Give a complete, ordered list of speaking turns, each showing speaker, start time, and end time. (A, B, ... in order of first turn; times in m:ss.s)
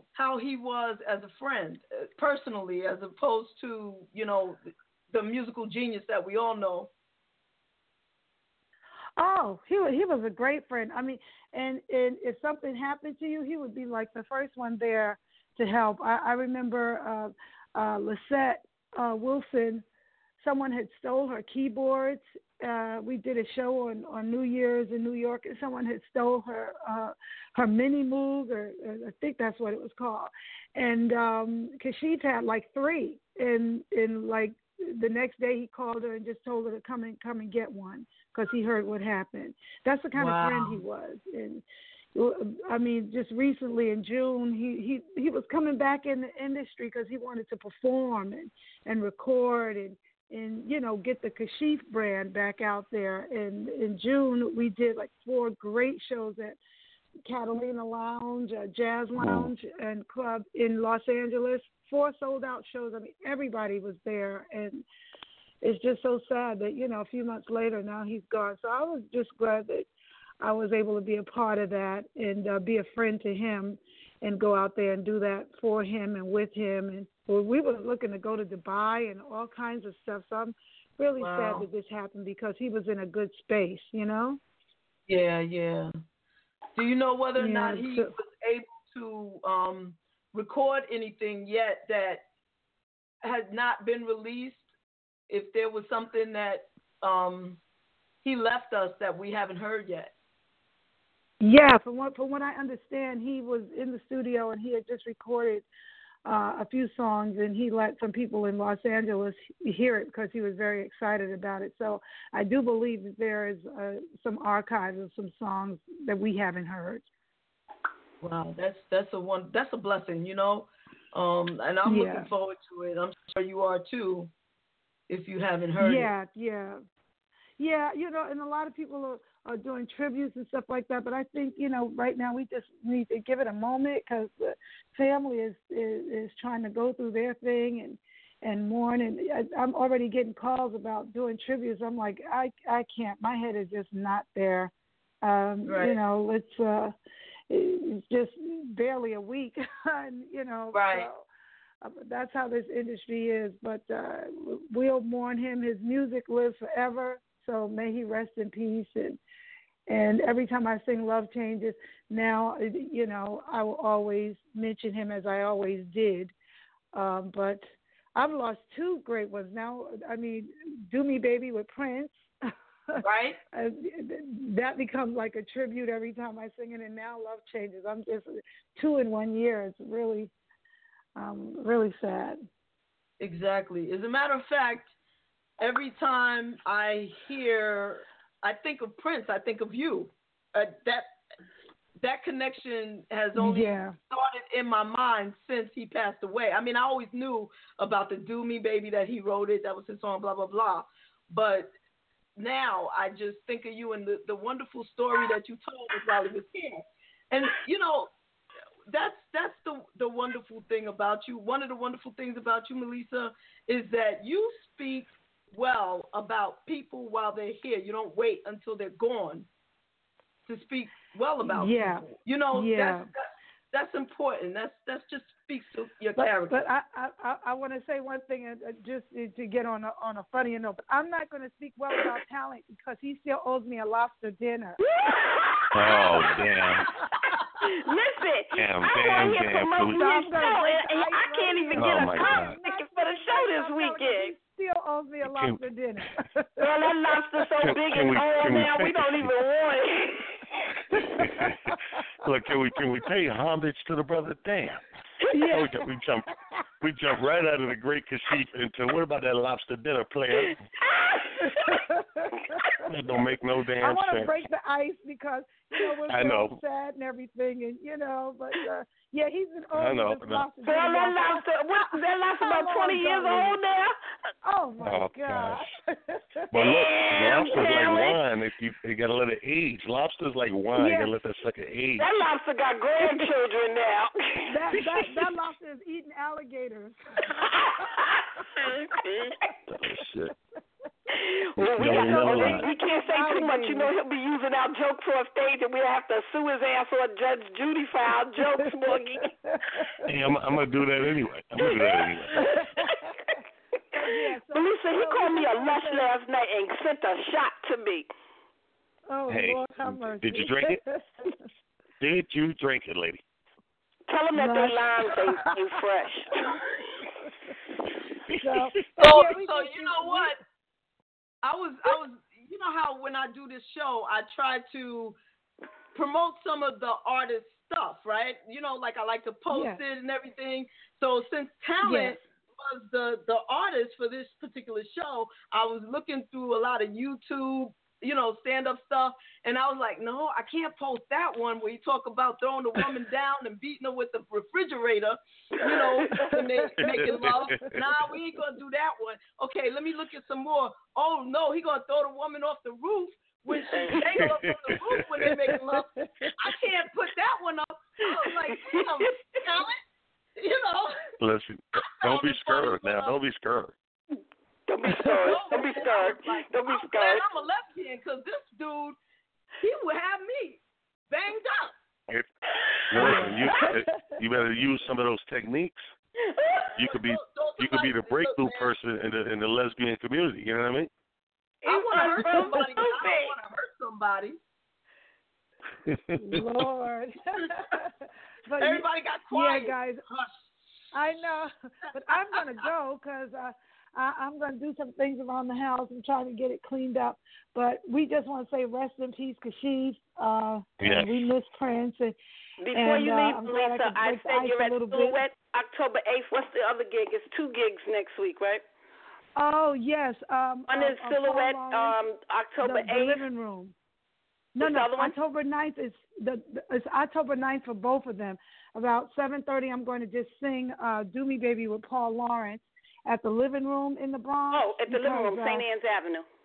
0:00.2-0:06.9 A
0:09.2-0:19.8 B
0:20.4-0:41.6 B
0:40.2-0:40.8 A
0:42.2-0:56.6 B
0:57.3-1:04.9 B
0:59.2-0:59.5 C
1:05.6-1:09.9 B
1:10.4-1:24.4 B
1:21.2-1:21.7 A
1:25.1-1:25.9 A
1:26.8-1:32.2 A
1:27.4-1:28.1 B
1:33.2-1:34.7 A
1:35.3-1:37.6 A
1:38.2-1:40.1 A
1:41.4-1:45.7 B
1:46.3-1:57.0 B
1:58.2-2:04.3 A
2:01.8-2:02.3 B
2:05.1-2:06.1 A
2:05.8-2:06.8 B
2:07.6-2:24.7 B
2:25.2-2:26.9 B
2:25.7-2:26.0 A
2:27.5-2:31.3 B
2:30.7-2:31.1 A
2:31.8-2:39.2 B
2:39.9-2:46.3 B
2:46.9-3:00.3 B
2:53.0-2:53.4 A
3:01.2-3:02.4 B
3:03.2-3:04.9 A
3:05.6-3:11.1 A
3:12.0-3:21.7 A
3:13.4-3:14.0 B
3:22.4-3:28.1 A
3:28.9-3:39.5 A
3:40.5-3:46.6 A
3:41.5-3:43.1 B
3:46.2-3:54.8 B
3:55.4-3:56.3 D
3:55.8-3:56.9 C
3:55.9-3:57.0 B
3:57.8-4:04.3 D
3:58.6-4:00.1 C
3:59.9-4:06.7 B
4:01.8-4:02.6 C
4:05.2-4:05.6 C
4:06.6-4:10.2 D
4:07.6-4:09.3 C
4:08.4-4:08.7 B
4:11.0-4:11.8 B
4:11.2-4:11.6 C
4:12.2-4:14.8 C
4:15.3-4:15.9 B
4:15.5-4:16.3 C
4:16.8-4:20.5 C
4:20.8-4:21.6 D
4:21.5-4:23.2 B
4:22.8-4:24.4 C
4:23.8-4:33.6 B
4:26.1-4:26.6 C
4:29.8-4:30.5 C
4:30.6-4:33.9 D
4:34.4-4:36.6 B
4:34.8-4:35.6 C
4:36.5-4:42.1 C
4:36.6-4:38.2 D
4:37.4-4:37.9 B
4:40.8-4:41.1 B
4:42.0-4:45.0 D
4:44.5-4:48.0 B
4:48.6-4:49.4 D
4:49.7-4:50.3 C
4:51.2-4:59.2 D
4:51.6-4:52.7 C
4:51.8-4:53.9 B
4:58.9-5:00.1 B
5:00.1-5:02.5 C
5:01.6-5:02.9 B
5:03.9-5:06.1 B
5:04.5-5:08.1 D
5:09.1-5:11.4 B
5:09.3-5:10.8 C
5:12.0-5:13.2 C
5:14.1-5:16.3 D
5:14.4-5:15.5 B
5:18.3-5:20.4 B
5:19.0-5:20.4 A
5:21.4-5:25.2 A
5:25.9-5:59.8 A
5:29.5-5:29.8 B
5:31.8-5:32.2 B
5:46.2-5:47.7 B
5:46.8-5:47.8 C
5:54.2-5:55.3 C
5:55.3-5:56.3 B
5:58.7-5:59.1 D
6:00.4-6:01.1 A
6:01.2-6:03.7 C
6:02.0-6:03.2 A
6:04.7-6:07.3 D
6:05.1-6:09.0 A
6:09.6-6:11.7 A
6:12.9-6:15.9 C
6:13.0-6:13.5 A
6:13.0-6:14.2 B
6:16.4-6:16.6 D
6:16.8-6:20.9 C
6:16.9-6:18.7 A
6:21.6-6:23.3 D
6:21.6-6:24.4 A
6:25.9-6:26.7 C
6:26.2-6:27.9 B
6:28.5-6:30.0 B
6:28.6-6:30.4 A
6:30.9-6:42.2 B
6:40.8-6:41.2 C
6:42.6-6:48.6 D
6:42.7-6:45.2 B
6:49.4-6:52.0 B
6:50.7-6:53.2 D
6:52.6-6:53.7 B
6:54.6-7:05.6 B
6:54.6-6:55.2 D
7:04.5-7:06.2 D